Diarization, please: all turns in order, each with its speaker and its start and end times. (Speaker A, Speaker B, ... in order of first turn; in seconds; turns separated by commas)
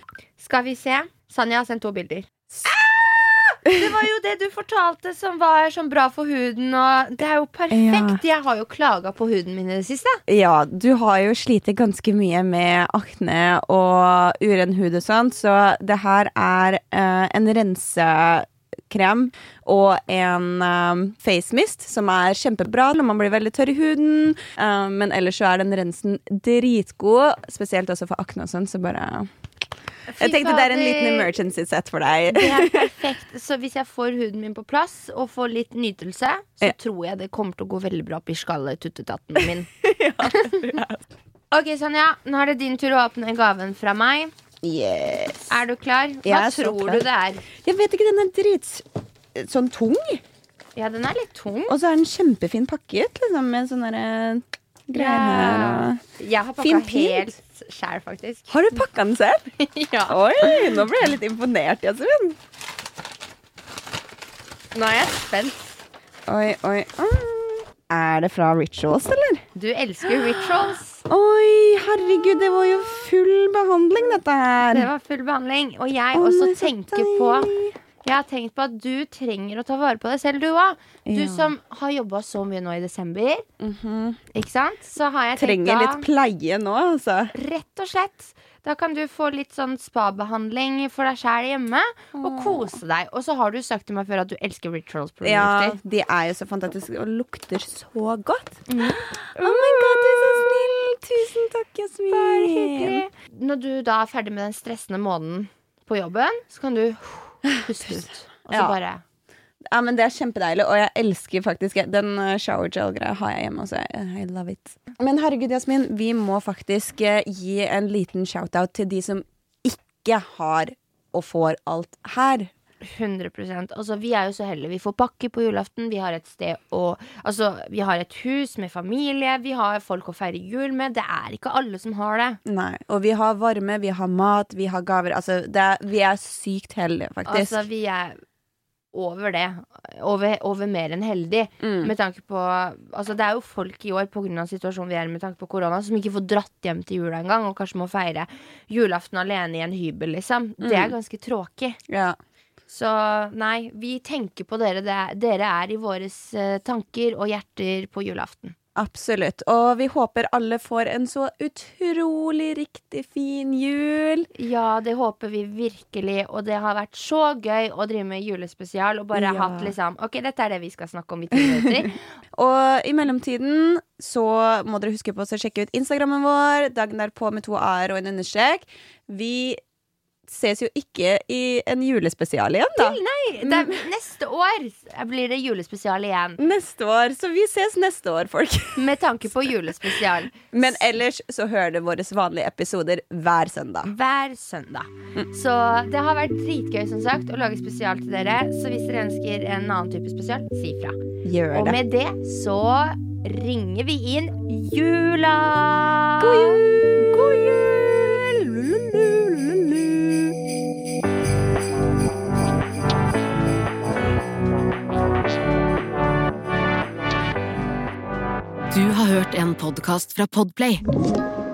Speaker A: 0.4-10.2, Speaker B: 7.7-8.2, Speaker B: 10.3-29.3, Speaker A: 30.1-31.3, Speaker B: 30.2-33.0, Speaker A: 32.3-39.7, Speaker B: 39.4-41.0, Speaker A: 41.5-44.3, Speaker B: 44.6-45.6, Speaker A: 45.5-47.4, Speaker B: 46.2-47.0, Speaker B: 47.6-50.2, Speaker A: 50.8-51.7, Speaker B: 51.7-56.0, Speaker A: 54.9-58.4, Speaker B: 56.6-57.3, Speaker B: 58.5-59.5, Speaker A: 59.6-60.1, Speaker B: 60.1-62.4, Speaker A: 64.7-65.8, Speaker B: 66.3-69.4, Speaker A: 69.5-71.0, Speaker B: 70.0-74.9, Speaker A: 74.7-77.5, Speaker B: 76.1-77.7, Speaker A: 78.0-83.4, Speaker B: 81.0-81.5, Speaker B: 83.6-84.2, Speaker A: 84.3-86.0, Speaker B: 85.3-87.3, Speaker A: 87.3-95.8, Speaker B: 92.1-92.8, Speaker B: 95.2-103.0, Speaker A: 98.7-100.2, Speaker A: 102.1-109.0, Speaker B: 107.7-108.8, Speaker B: 109.7-122.5, Speaker A: 123.0-132.4, Speaker B: 132.4-137.7, Speaker A: 137.2-138.2, Speaker A: 138.9-151.8, Speaker B: 141.6-141.9, Speaker B: 150.6-150.9, Speaker B: 151.9-152.2, Speaker A: 152.7-158.5, Speaker B: 158.8-164.3, Speaker A: 164.4-171.8, Speaker B: 169.1-169.7, Speaker B: 171.3-179.6, Speaker B: 180.2-183.9, Speaker A: 182.8-186.4, Speaker B: 186.4-193.9, Speaker A: 188.8-190.3, Speaker A: 193.9-201.0, Speaker B: 201.2-201.8, Speaker A: 201.5-206.6, Speaker B: 206.2-209.9, Speaker C: 218.7-220.8